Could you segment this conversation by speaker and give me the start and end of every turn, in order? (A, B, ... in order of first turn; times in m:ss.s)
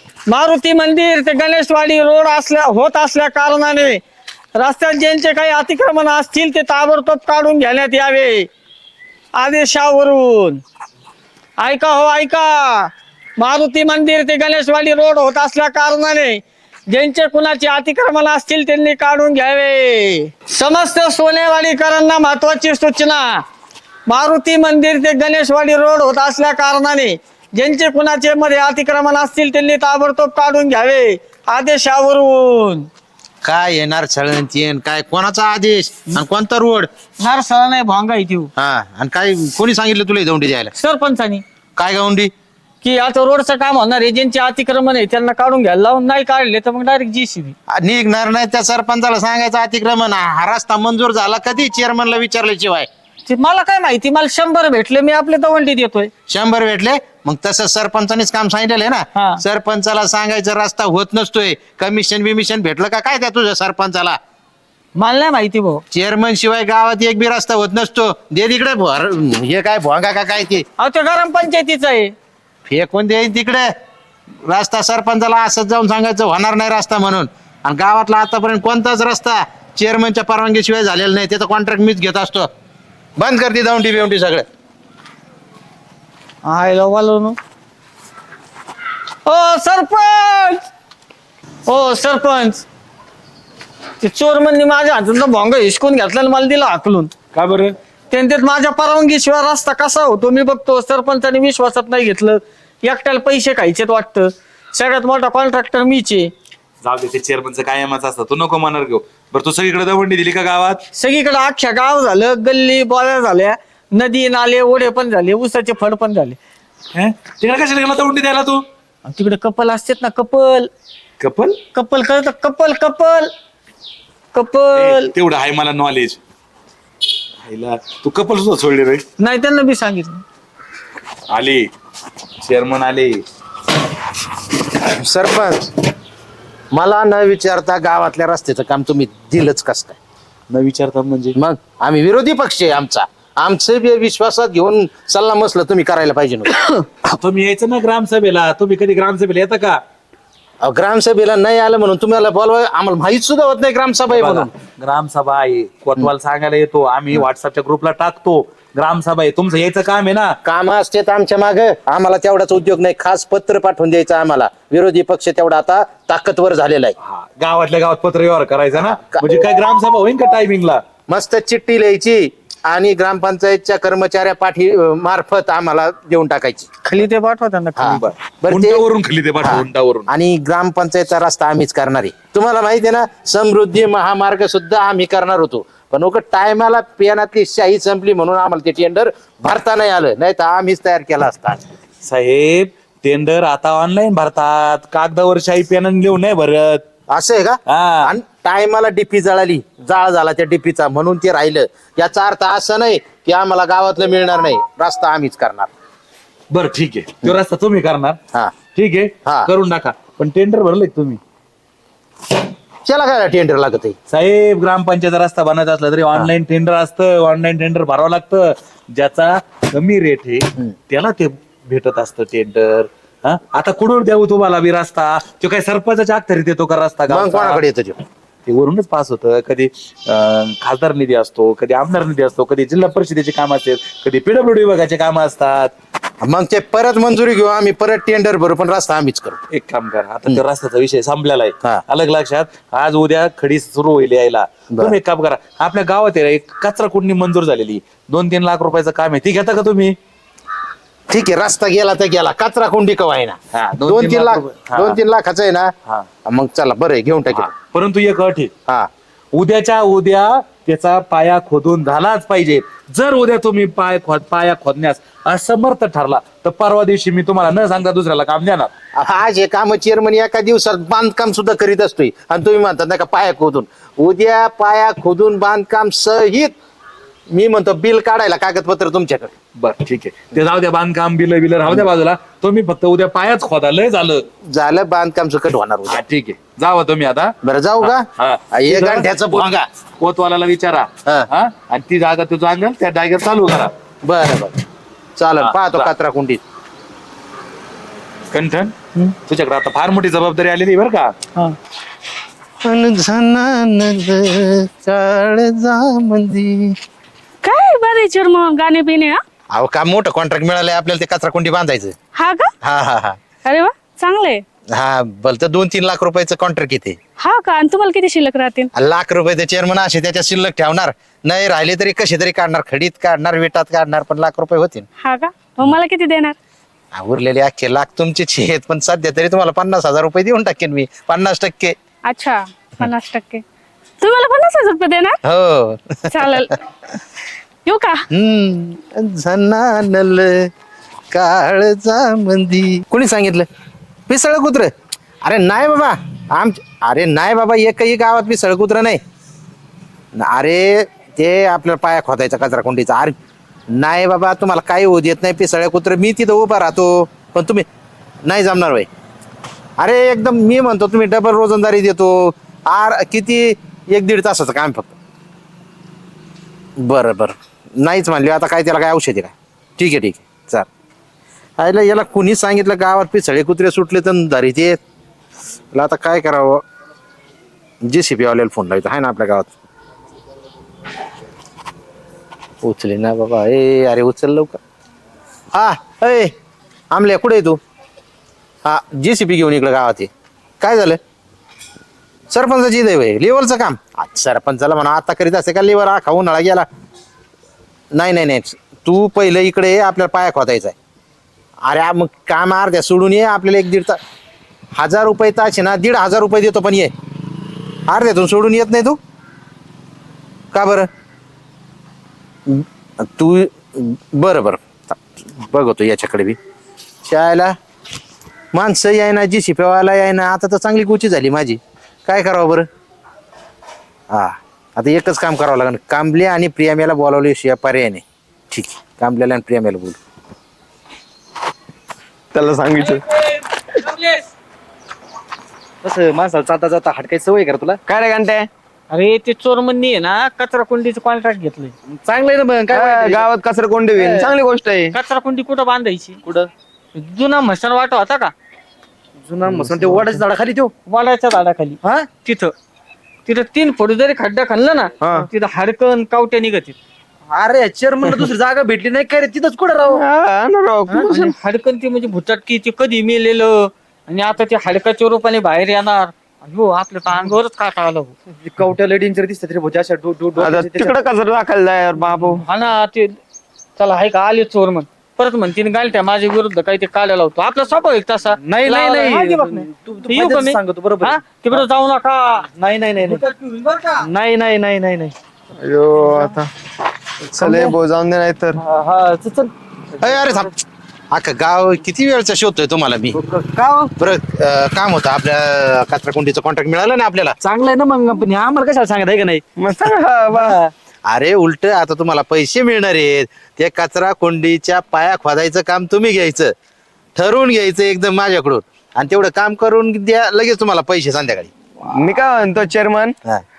0:00.3-0:04.0 A
0:04.6-0:08.5 A
0:09.4-0:10.6 A
0:11.6-0:23.4 A
0:24.1-0:32.9 A
0:33.4-0:36.9 B
0:37.2-0:38.5 A
0:38.6-0:40.7 B
0:40.8-0:41.4 A
0:41.8-0:42.3 B
0:42.8-0:47.5 A
0:47.7-0:52.9 B
0:53.3-0:56.1 A
0:56.3-1:04.2 B
0:59.2-0:59.4 A
1:05.0-1:05.8 A
1:05.9-1:10.6 B
1:10.8-1:12.1 A
1:12.7-1:13.7 B
1:14.4-1:22.5 B
1:23.2-1:24.4 B
1:26.4-1:27.4 A
1:29.2-1:30.6 A
1:31.6-1:32.6 A
1:34.0-1:37.1 A
1:37.3-1:37.7 C
1:38.1-1:46.3 A
1:46.8-1:50.8 C
1:50.9-1:56.4 A
1:56.9-1:58.6 C
1:59.0-2:00.7 A
2:01.2-2:01.6 C
2:01.7-2:03.3 A
2:04.3-2:05.1 A
2:04.7-2:06.2 C
2:07.4-2:09.0 C
2:09.2-2:10.2 A
2:11.3-2:11.6 C
2:12.4-2:13.2 C
2:14.8-2:15.7 B
2:16.7-2:20.0 B
2:20.5-2:21.4 C
2:21.3-2:26.5 B
2:27.0-2:29.8 C
2:30.6-2:34.5 B
2:34.1-2:40.4 C
2:40.4-2:47.0 B
2:47.0-2:50.8 C
2:48.7-2:49.4 B
2:51.1-2:56.7 B
2:56.8-2:58.0 A
2:57.8-2:58.8 B
2:57.9-3:00.1 C
2:59.4-3:11.6 B
3:12.0-3:16.8 C
3:17.1-3:25.7 B
3:17.7-3:18.1 C
3:26.5-3:28.2 C
3:28.7-3:31.2 C
3:29.2-3:29.5 B
3:32.8-3:34.0 B
3:34.1-3:47.6 C
3:47.1-3:48.0 B
3:48.5-3:55.7 C
3:56.2-3:59.4 B
3:59.5-4:09.9 C
4:11.1-4:15.7 B
4:13.5-4:15.0 C
4:16.2-4:17.5 B
4:17.3-4:18.5 C
4:19.3-4:28.7 C
4:29.0-4:36.5 B
4:37.3-4:39.3 B
4:39.6-4:44.2 C
4:44.5-4:46.0 B
4:45.9-4:53.7 C
4:47.4-4:49.6 B
4:54.0-4:54.5 B
4:55.2-4:56.4 B
4:55.4-4:55.9 C
4:58.3-4:58.7 C
4:59.3-5:01.1 C
5:02.6-5:06.7 B
5:07.4-5:09.2 D
5:09.5-5:11.9 B
5:12.1-5:12.5 D
5:12.6-5:13.2 B
5:13.4-5:14.4 D
5:14.7-5:17.0 B
5:17.2-5:18.7 D
5:18.8-5:24.9 B
5:25.0-5:26.4 D
5:26.9-5:31.7 B
5:32.0-5:33.4 D
5:34.0-5:35.2 D
5:35.3-5:36.4 B
5:36.1-5:36.5 D
5:37.6-5:38.0 D
5:38.1-5:40.5 B
5:41.1-5:43.5 B
5:44.1-5:44.7 B
5:45.2-5:49.0 B
5:50.2-5:53.1 B
5:53.7-5:57.6 B
5:58.2-5:58.9 B
5:59.8-6:04.9 B
6:06.8-6:10.7 B
6:11.6-6:14.8 B
6:15.7-6:16.6 B
6:17.8-6:19.5 B
6:22.6-6:24.6 B
6:25.5-6:26.3 B
6:26.9-6:27.6 B
6:28.6-6:30.1 B
6:30.6-6:31.0 B
6:32.3-6:36.6 B
6:37.9-6:40.8 B
6:41.6-6:44.0 B
6:44.8-6:46.9 B
6:47.9-6:49.0 B
6:50.5-6:50.9 B
6:52.5-6:56.4 B
6:57.0-6:57.5 B
6:58.5-7:02.6 B
7:04.1-7:10.0 B
7:12.3-7:13.1 E
7:13.8-7:14.1 A
7:16.0-7:17.8 F
7:17.9-7:18.5 E
7:18.9-7:21.7 A
7:22.0-7:22.9 B
7:22.4-7:23.2 F
7:22.7-7:24.9 E
7:24.9-7:26.2 A
7:27.0-7:28.3 A
7:29.2-7:30.7 B
7:29.4-7:30.2 F
7:30.9-7:32.5 A
7:33.2-7:36.8 A
7:35.0-7:35.2 B
7:37.3-7:40.0 B
7:39.9-7:41.3 E
7:41.0-7:48.1 A
7:48.4-7:51.0 F
7:50.4-7:52.4 E
7:52.4-7:53.2 A
7:53.8-8:02.5 A
7:58.5-8:01.6 F
8:02.6-8:05.1 F
8:05.6-8:06.5 E
8:07.3-8:08.6 E
8:07.4-8:07.7 F
8:08.7-8:09.5 F
8:10.0-8:10.6 B
8:10.0-8:10.3 F
8:11.1-8:13.2 B
8:13.2-8:13.9 F
8:14.0-8:17.3 B
8:17.4-8:19.4 F
8:19.6-8:20.6 E
8:21.0-8:26.5 B
8:27.2-8:31.5 B
8:31.9-8:33.2 E